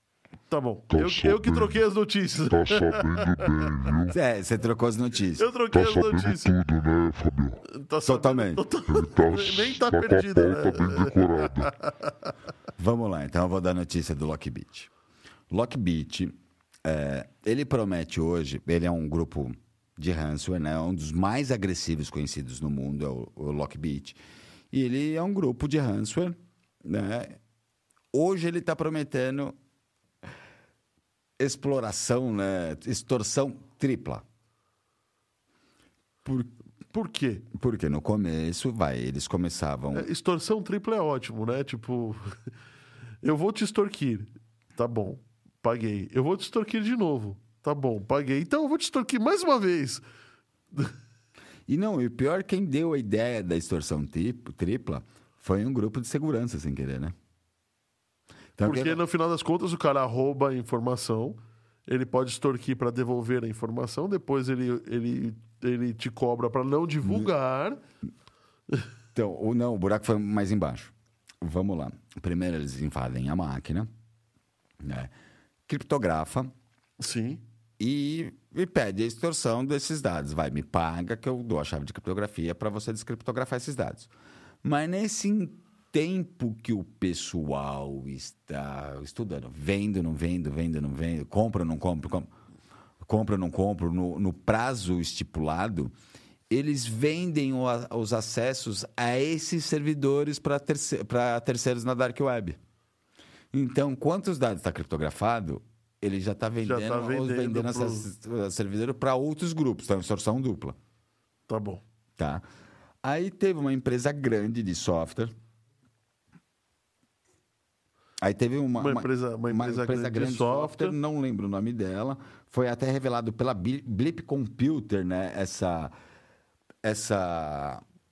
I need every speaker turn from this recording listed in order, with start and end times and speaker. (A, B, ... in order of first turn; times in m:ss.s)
0:00.5-0:03.7 A
0:00.9-0:01.8 B
0:02.5-0:04.2 B
0:04.1-0:05.5 C
0:05.4-0:06.5 A
0:05.7-0:07.6 B
0:07.7-0:12.1 A
0:08.0-0:08.6 C
0:08.9-0:11.8 B
0:12.8-0:14.9 C
0:15.5-0:16.3 C
0:16.8-0:24.2 C
0:24.7-0:27.4 C
0:28.1-0:29.6 C
0:31.4-0:34.2 C
0:36.2-0:36.5 C
0:36.9-0:37.5 A
0:37.5-0:40.1 C
0:39.9-0:42.3 A
0:43.2-0:50.0 A
0:51.7-0:57.1 C
0:58.6-0:59.0 C
0:58.6-1:07.8 A
1:07.0-1:07.3 C
1:09.1-1:13.9 C
1:14.8-1:15.1 C
1:15.7-1:16.5 C
1:17.0-1:17.4 A
1:17.8-1:24.1 C
1:24.6-1:32.3 C
1:33.0-1:35.9 C
1:36.5-1:42.6 C
1:43.5-1:50.8 C
1:46.6-1:48.1 A
1:51.5-1:51.8 A
1:52.2-1:52.4 C
1:53.0-1:55.3 C
1:58.2-2:05.9 C
1:58.8-2:01.0 A
2:06.8-2:07.8 C